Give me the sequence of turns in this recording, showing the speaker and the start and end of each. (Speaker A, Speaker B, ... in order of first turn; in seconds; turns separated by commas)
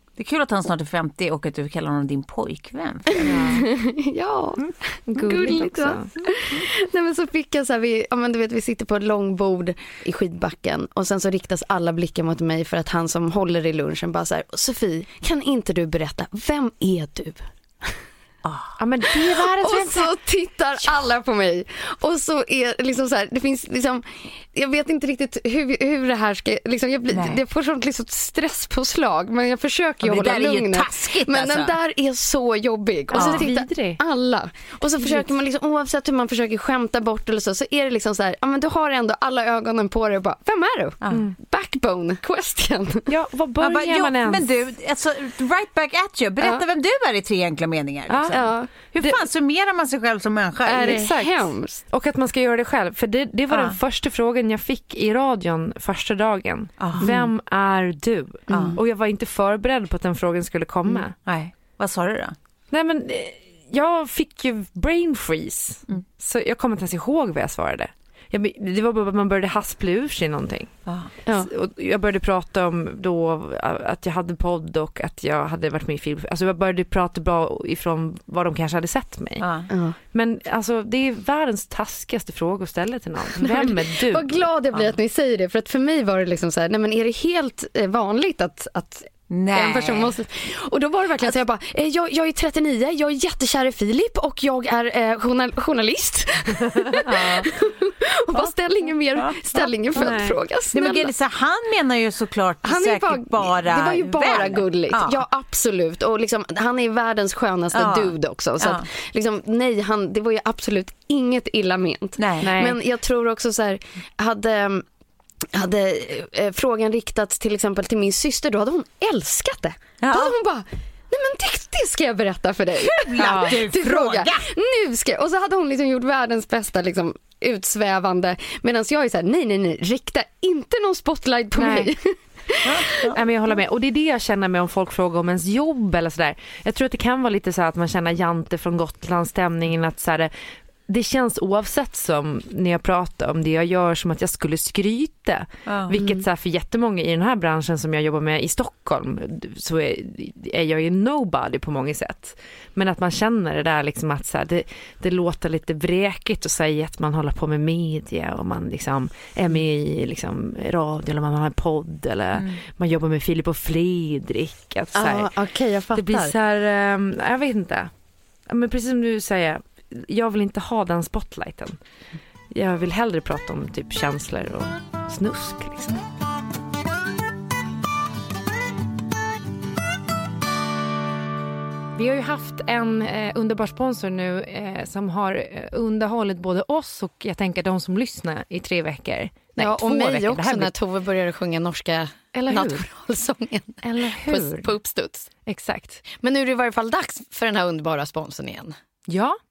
Speaker A: 0.2-3.6, Speaker B: 3.2-3.6, Speaker C: 3.3-18.0, Speaker B: 5.1-6.1, Speaker A: 18.4-18.8, Speaker B: 18.8-20.1, Speaker C: 19.2-43.1, Speaker A: 27.1-27.4, Speaker A: 30.0-31.7, Speaker B: 33.1-34.0, Speaker A: 33.1-33.5, Speaker A: 41.0-41.3, Speaker B: 41.1-41.4, Speaker B: 43.1-44.5, Speaker A: 43.6-51.1, Speaker B: 48.1-48.4, Speaker C: 48.3-48.7, Speaker C: 50.6-51.8, Speaker B: 50.8-61.1, Speaker A: 53.5-53.8, Speaker A: 56.8-57.1, Speaker C: 57.0-57.3, Speaker C: 58.5-58.8, Speaker A: 58.5-58.8, Speaker A: 61.2-62.4, Speaker B: 62.7-70.7, Speaker B: 71.3-79.5, Speaker A: 79.4-79.7, Speaker C: 79.7-80.0, Speaker B: 80.1-84.4, Speaker C: 83.4-101.1, Speaker A: 89.3-90.2, Speaker A: 97.1-97.5, Speaker B: 100.0-100.4, Speaker A: 100.7-105.2, Speaker C: 102.6-114.8, Speaker A: 107.7-108.9, Speaker A: 112.2-112.5, Speaker B: 112.4-112.8, Speaker C: 115.5-133.1, Speaker A: 120.0-120.4, Speaker A: 122.8-124.5, Speaker B: 123.2-123.6, Speaker B: 131.6-131.9, Speaker A: 132.7-133.2, Speaker B: 133.1-140.3, Speaker B: 140.9-165.3, Speaker A: 145.7-145.9, Speaker C: 145.9-146.2, Speaker C: 164.9-166.3, Speaker B: 165.9-167.9, Speaker B: 168.5-171.8, Speaker B: 172.5-176.0, Speaker B: 181.9-190.7, Speaker C: 189.6-195.3, Speaker B: 192.3-192.8, Speaker B: 193.8-194.7, Speaker B: 195.5-196.0, Speaker C: 196.1-198.8, Speaker B: 199.1-199.4